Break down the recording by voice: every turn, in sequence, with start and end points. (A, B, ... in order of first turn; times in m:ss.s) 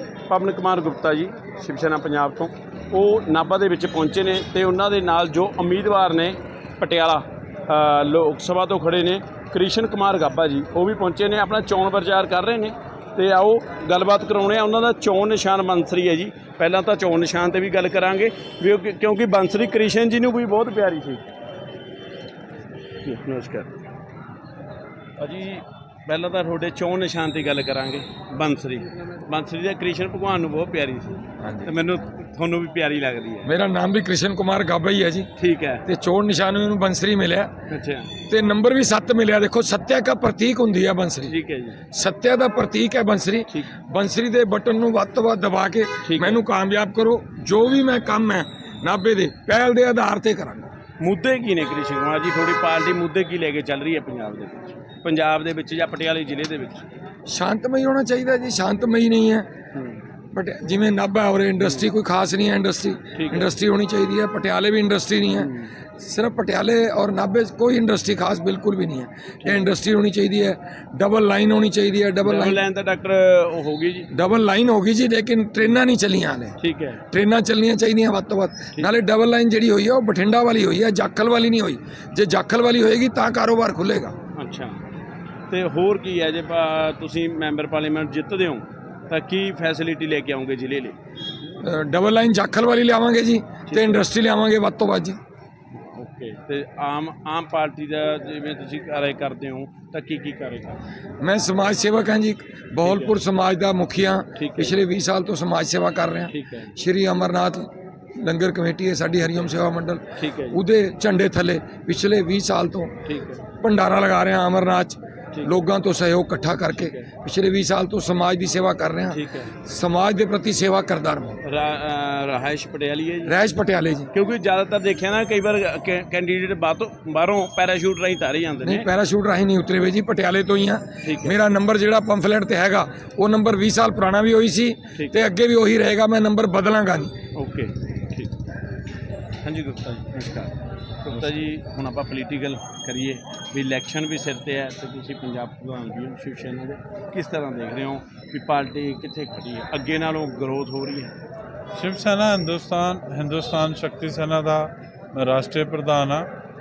0:00.3-0:21.2 A
0:23.0-0:23.7 A
0:25.2-0:33.5 A
0:31.4-0:31.7 B
0:33.4-0:35.3 B
0:35.4-0:35.8 A
0:35.8-0:37.6 B
0:37.7-0:38.1 A
0:38.3-0:41.4 B
0:41.3-0:41.8 A
0:41.9-0:50.7 B
0:46.0-0:46.4 A
0:51.0-0:56.9 A
0:57.3-0:59.5 B
0:59.8-1:00.0 A
1:00.3-1:12.6 B
1:01.6-1:01.9 A
1:03.2-1:03.5 A
1:05.4-1:05.7 A
1:09.4-1:09.7 A
1:12.2-1:14.1 A
1:14.1-1:16.6 B
1:16.6-1:17.0 A
1:17.1-1:24.1 B
1:24.4-1:24.8 A
1:25.5-1:31.0 A
1:31.6-1:35.2 B
1:33.7-1:34.0 A
1:35.9-1:40.8 A
1:41.2-1:53.0 B
1:42.8-1:43.2 A
1:44.4-1:44.8 A
1:46.3-1:46.7 A
1:50.2-1:50.6 A
1:53.0-1:53.4 A
1:53.5-2:01.4 B
1:56.8-1:57.1 A
1:59.1-1:59.5 A
2:01.4-2:03.4 A
2:03.2-2:04.1 B
2:04.1-2:08.9 A
2:08.6-2:17.2 B
2:11.0-2:11.4 A
2:17.4-2:18.3 A
2:19.4-2:20.5 A
2:21.0-2:31.1 A
2:31.8-2:36.3 C